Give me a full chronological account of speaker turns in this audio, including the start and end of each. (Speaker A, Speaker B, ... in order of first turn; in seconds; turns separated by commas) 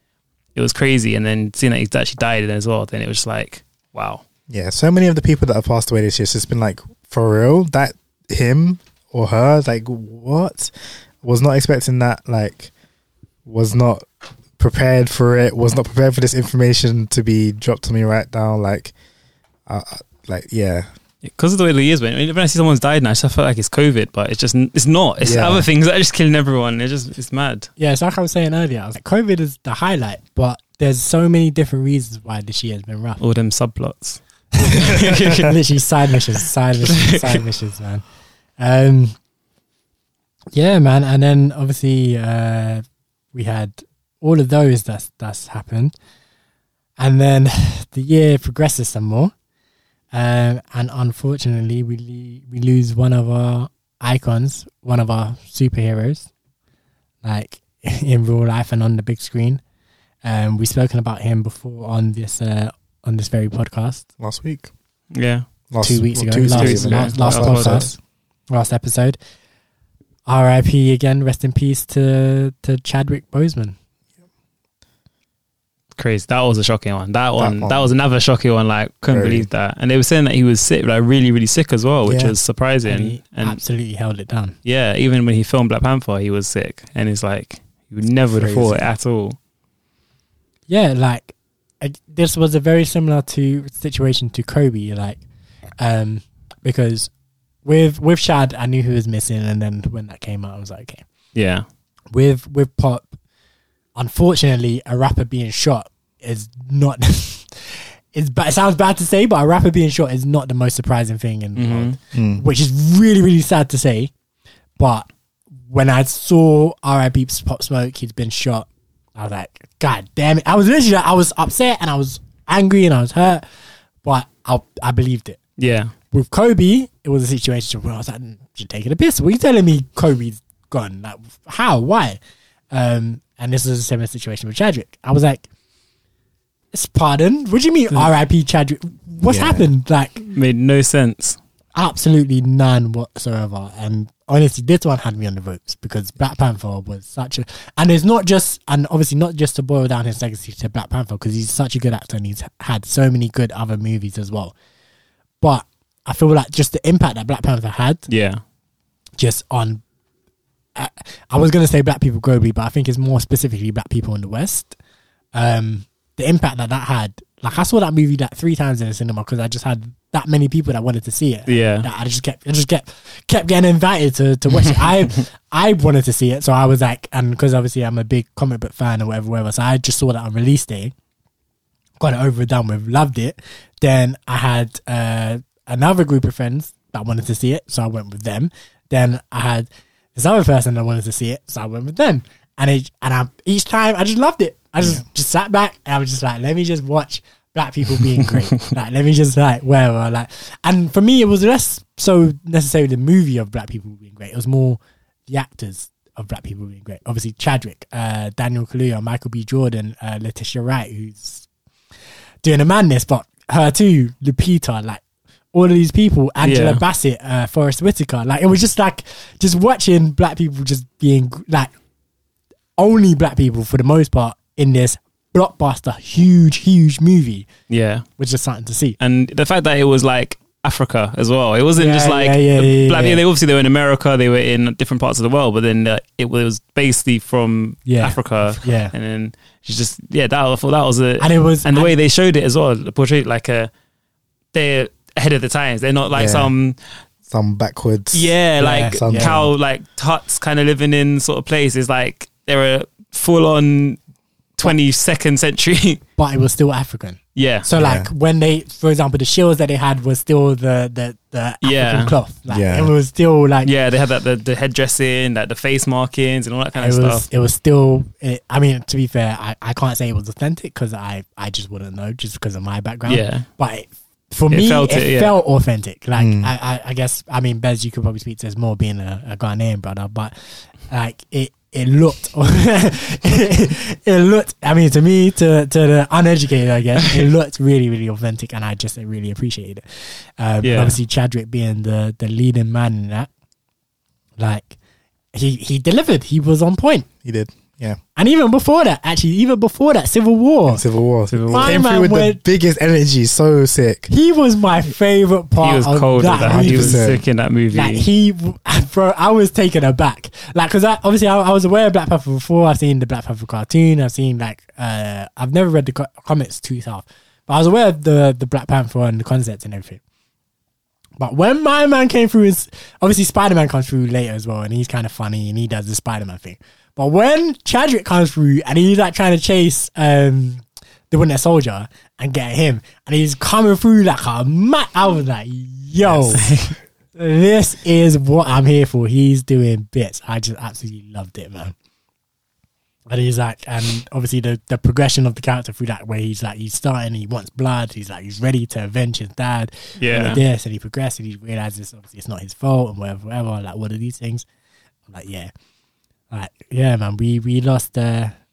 Speaker A: 0.5-4.2, Speaker B: 4.5-12.7, Speaker B: 13.4-18.9, Speaker B: 19.6-20.9, Speaker A: 21.2-27.7, Speaker B: 25.2-25.7, Speaker C: 27.8-33.2, Speaker A: 33.2-35.5, Speaker C: 34.5-38.0, Speaker C: 38.6-39.1, Speaker C: 40.5-46.0, Speaker C: 47.0-49.3, Speaker C: 50.1-56.3, Speaker C: 57.2-59.6, Speaker C: 60.2-64.0, Speaker B: 64.2-64.7, Speaker A: 65.1-65.5, Speaker B: 65.7-67.9, Speaker C: 65.8-69.2, Speaker A: 66.5-67.9, Speaker C: 70.2-73.8, Speaker A: 75.9-83.6, Speaker B: 77.4-77.9, Speaker B: 79.1-79.5, Speaker B: 82.0-82.3, Speaker C: 82.8-84.5, Speaker A: 84.6-89.4, Speaker B: 88.4-88.8, Speaker C: 90.7-95.2, Speaker C: 95.8-97.1, Speaker C: 97.6-101.0, Speaker A: 101.3-101.7, Speaker C: 102.1-103.1, Speaker C: 104.0-114.1, Speaker A: 111.5-112.0, Speaker B: 112.1-112.4, Speaker C: 114.8-115.1, Speaker C: 115.7-123.5, Speaker C: 124.0-125.4, Speaker A: 125.6-125.9, Speaker C: 126.1-132.2, Speaker C: 132.7-135.5, Speaker C: 136.7-140.2, Speaker B: 139.2-139.7, Speaker A: 140.3-141.4, Speaker C: 141.7-154.5, Speaker C: 155.4-158.1, Speaker A: 158.1-158.4, Speaker C: 159.2-159.8, Speaker C: 160.8-164.8, Speaker C: 165.3-180.9, Speaker A: 171.5-171.9, Speaker C: 182.0-211.5, Speaker C: 212.4-221.7, Speaker A: 216.4-216.8, Speaker C: 222.8-227.5, Speaker A: 227.7-228.1, Speaker C: 228.2-229.0, Speaker A: 229.0-243.7, Speaker C: 231.7-233.2, Speaker C: 237.8-238.9, Speaker C: 241.2-241.9, Speaker A: 244.5-246.8, Speaker B: 246.1-246.5, Speaker B: 247.3-249.5, Speaker A: 248.1-254.0, Speaker C: 248.6-249.4, Speaker A: 254.6-256.0, Speaker C: 256.2-263.7, Speaker A: 257.3-257.7, Speaker B: 257.7-258.1, Speaker A: 261.6-262.1, Speaker B: 262.5-262.9, Speaker A: 263.6-267.2, Speaker C: 266.8-293.3, Speaker A: 273.1-273.5, Speaker A: 274.5-275.3, Speaker B: 276.2-276.5, Speaker A: 290.6-291.0, Speaker C: 294.4-294.8, Speaker C: 295.3-297.1, Speaker B: 297.2-298.0, Speaker C: 298.1-300.8, Speaker B: 300.7-304.1, Speaker A: 301.3-301.8, Speaker C: 301.5-302.4, Speaker C: 304.1-307.0, Speaker A: 305.6-308.0, Speaker B: 306.4-307.2, Speaker C: 307.7-320.0, Speaker C: 321.2-336.5, Speaker B: 336.0-336.7, Speaker A: 336.4-336.7, Speaker C: 337.1-341.7, Speaker C: 343.1-354.4, Speaker A: 350.0-350.4, Speaker C: 355.1-355.5, Speaker C: 356.3-358.3